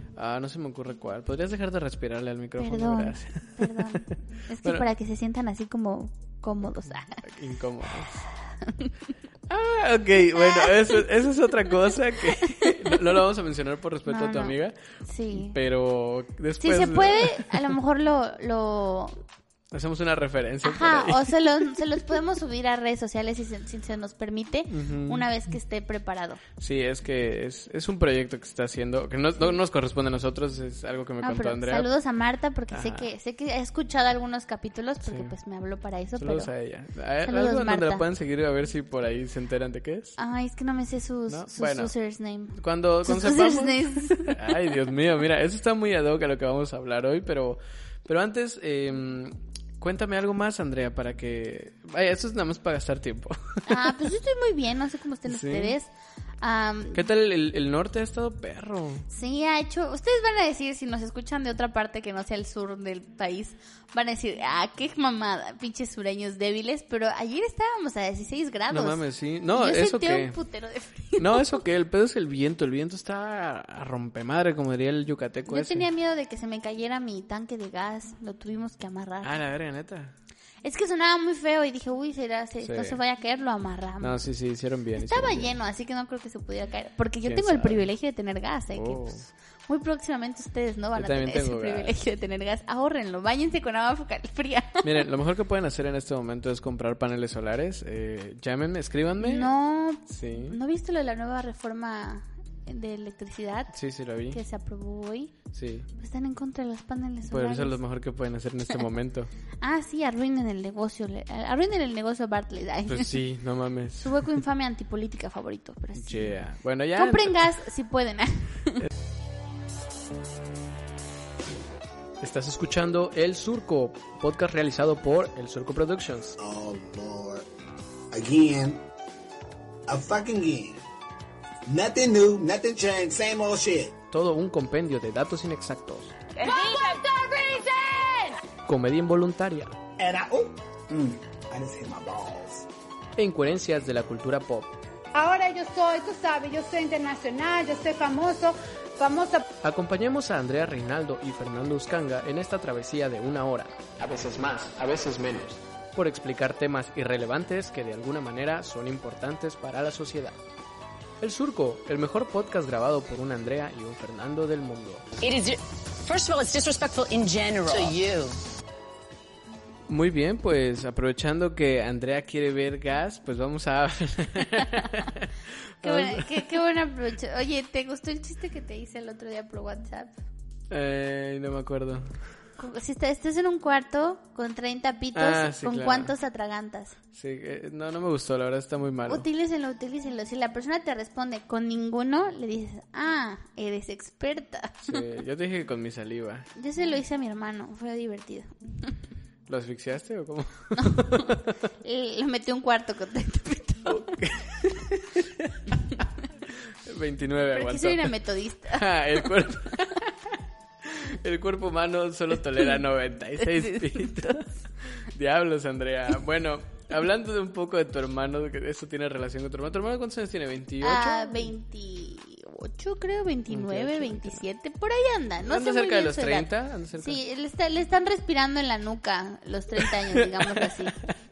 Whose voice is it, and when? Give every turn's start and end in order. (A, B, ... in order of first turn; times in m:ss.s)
0:00.2-0:04.9 A
0:02.6-0:07.2 B
0:07.2-0:08.2 A
0:08.6-0:08.9 B
0:09.5-0:14.8 A
0:10.4-0:11.0 B
0:12.4-0:13.0 B
0:14.1-0:15.6 B
0:15.3-0:17.7 A
0:16.6-0:19.2 B
0:19.7-0:21.3 A
0:20.6-0:26.4 B
0:24.7-0:25.3 A
0:26.6-0:31.9 A
0:31.2-0:36.5 B
0:32.7-0:33.1 A
0:35.1-0:35.3 A
0:36.2-0:40.2 A
0:37.2-0:38.0 B
0:40.2-0:44.6 B
0:41.3-0:41.9 A
0:42.6-0:54.0 A
0:53.7-0:55.9 B
0:55.3-0:55.8 A
0:56.4-0:57.0 B
0:56.9-0:59.1 A
0:59.1-1:09.0 B
1:08.7-1:10.4 A
1:09.5-1:11.6 B
1:11.2-1:15.9 A
1:15.5-1:19.4 B
1:19.2-1:20.1 A
1:20.6-1:24.2 B
1:22.6-1:23.0 A
1:24.0-1:25.5 A
1:25.0-1:35.1 B
1:27.2-1:27.8 A
1:28.7-1:29.2 A
1:31.0-1:31.9 A
1:34.8-1:39.5 A
1:39.2-1:43.7 B
1:40.1-1:40.6 A
1:43.7-1:44.4 A
1:44.3-1:45.3 B
1:45.5-1:45.9 A
1:46.0-1:47.8 B
1:47.3-1:49.3 A
1:49.6-1:53.2 B
1:52.9-1:54.3 A
1:54.0-1:56.4 B
1:56.0-1:57.5 A
1:57.0-1:58.9 B
2:02.2-2:06.4 A
2:06.4-2:07.4 C
2:08.1-2:08.8 C
2:09.9-2:10.8 C
2:11.6-2:14.0 C
2:14.1-2:16.1 A
2:16.4-2:18.4 D
2:18.7-2:19.8 A
2:20.0-2:22.7 C
2:23.2-2:24.8 A
2:25.1-2:29.4 D
2:29.6-2:40.4 A
2:41.2-2:45.0 A
2:45.2-2:48.4 E
2:49.9-2:56.5 A
2:55.8-3:00.1 B
3:00.7-3:02.1 A
3:02.6-3:07.0 B
3:05.2-3:06.1 A
3:07.1-3:09.2 A
3:09.1-3:15.0 B
3:14.8-3:16.5 A
3:16.6-3:18.9 B
3:19.5-3:21.6 A
3:20.8-3:21.3 B
3:21.8-3:24.1 B
3:23.8-3:25.6 A
3:26.6-3:28.1 A
3:27.5-3:29.3 B
3:28.7-3:30.1 A
3:30.8-3:41.5 A
3:33.4-3:34.4 B
3:40.8-3:51.0 B
3:43.5-3:44.4 A
3:45.4-3:47.2 A
3:49.8-3:50.7 A